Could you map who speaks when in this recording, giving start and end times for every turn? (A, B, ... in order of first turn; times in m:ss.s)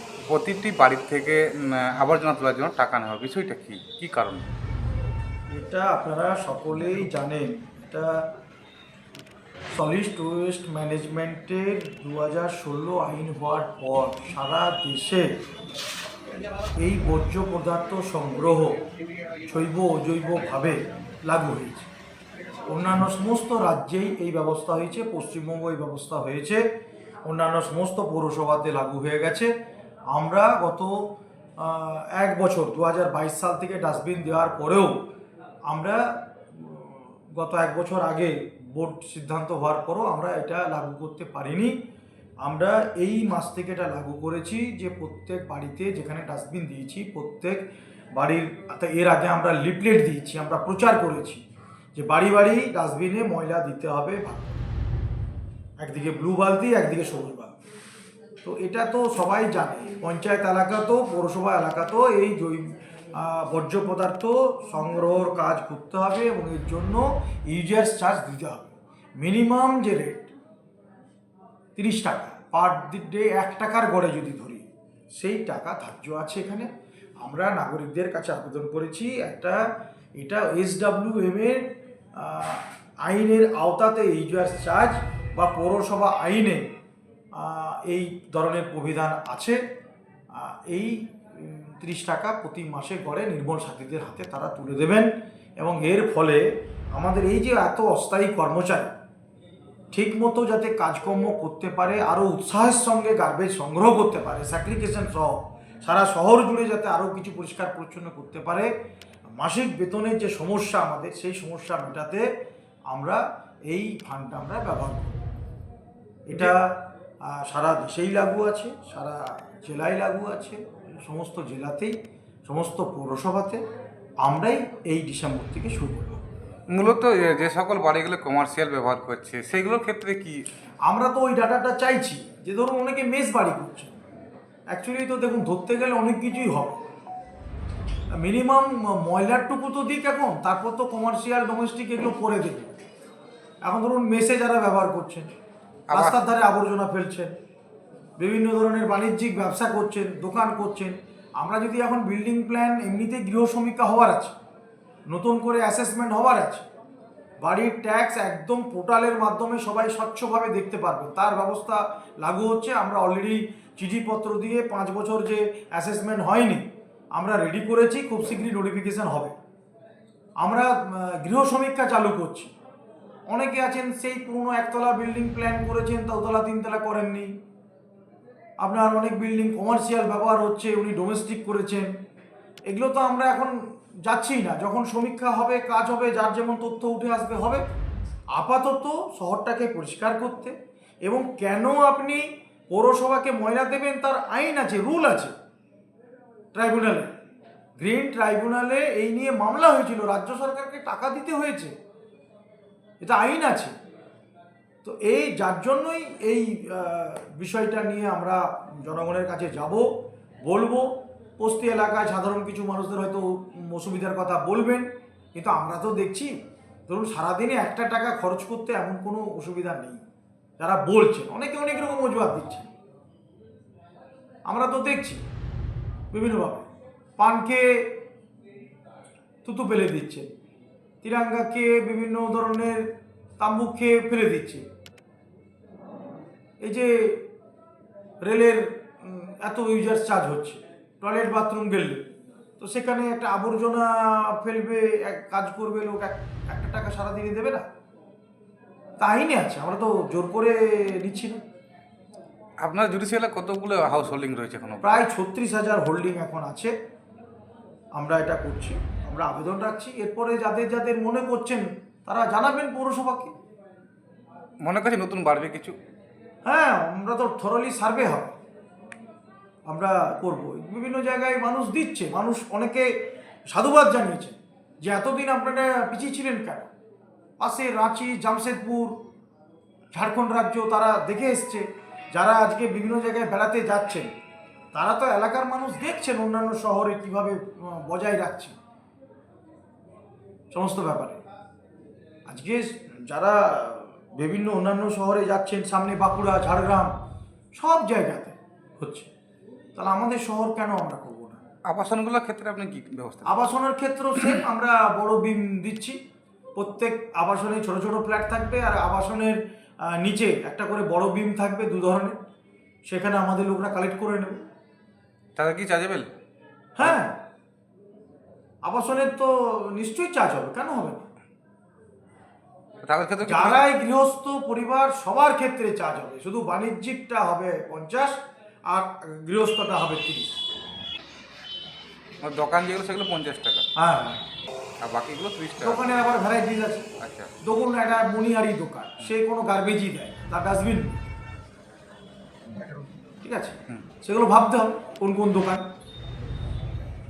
0:00.3-0:04.4 A
0:05.5-0:08.2 B
0:09.7-0:15.3 B
0:16.8-0:18.8 B
0:19.4-0:21.9 B
0:22.7-0:26.6 B
0:27.3-0:29.5 B
0:30.1-0:31.0 B
0:31.6-0:35.0 B
0:35.7-0:41.8 B
0:42.4-0:51.4 B
0:52.0-0:54.6 B
0:55.8-0:57.5 B
0:58.4-1:10.3 B
1:11.8-1:16.7 B
1:17.2-1:19.6 B
1:20.2-1:26.6 B
1:27.3-1:29.6 B
1:30.3-1:38.9 B
1:39.9-1:48.7 B
1:49.4-1:52.3 B
1:52.9-1:55.2 B
1:56.3-2:01.9 B
2:02.4-2:03.6 B
2:04.2-2:06.2 B
2:06.7-2:10.4 A
2:10.9-2:14.0 B
2:14.7-2:16.8 B
2:18.2-2:22.8 B
2:23.6-2:25.3 B
2:25.9-2:26.2 A
2:25.9-2:27.3 B
2:28.2-2:34.3 B
2:35.1-2:36.7 B
2:37.4-2:49.4 B
2:50.4-2:52.5 B
2:53.3-2:57.3 B
2:58.6-3:01.9 B
3:02.7-3:03.5 B
3:04.0-3:07.6 B
3:08.3-3:10.5 B
3:11.0-3:15.3 B
3:16.5-3:17.1 B
3:17.8-3:21.7 B
3:23.0-3:23.7 B
3:24.8-3:29.9 B
3:30.4-3:36.3 B
3:36.9-3:40.0 B
3:40.6-3:42.7 B
3:44.5-3:45.2 B
3:46.1-3:48.0 B
3:49.4-3:50.3 B
3:51.0-3:52.9 B
3:53.4-3:54.7 B
3:56.6-3:57.2 B
3:58.2-4:02.1 B
4:02.6-4:07.6 B
4:09.0-4:11.4 B
4:12.6-4:15.0 A
4:14.8-4:16.7 B
4:18.0-4:23.3 B
4:24.6-4:25.8 A
4:26.4-4:28.4 B
4:29.7-4:33.0 B
4:33.5-4:36.7 B
4:37.4-4:39.0 B
4:39.9-4:44.1 B
4:44.7-4:48.6 B
4:50.5-4:51.2 B
4:52.3-4:56.9 B
4:57.6-4:59.1 B
4:59.8-5:01.4 B
5:01.7-5:03.4 A
5:03.2-5:06.0 B
5:06.6-5:12.2 B
5:12.9-5:14.4 B
5:15.4-5:16.1 A
5:16.8-5:17.2 B
5:18.6-5:21.1 B
5:22.8-5:23.6 A
5:23.2-5:30.4 B
5:32.2-5:33.7 A
5:33.8-5:34.2 B
5:34.8-5:36.1 A
5:35.6-5:36.9 B
5:37.0-5:37.3 A
5:37.4-5:41.0 B
5:43.2-5:45.6 B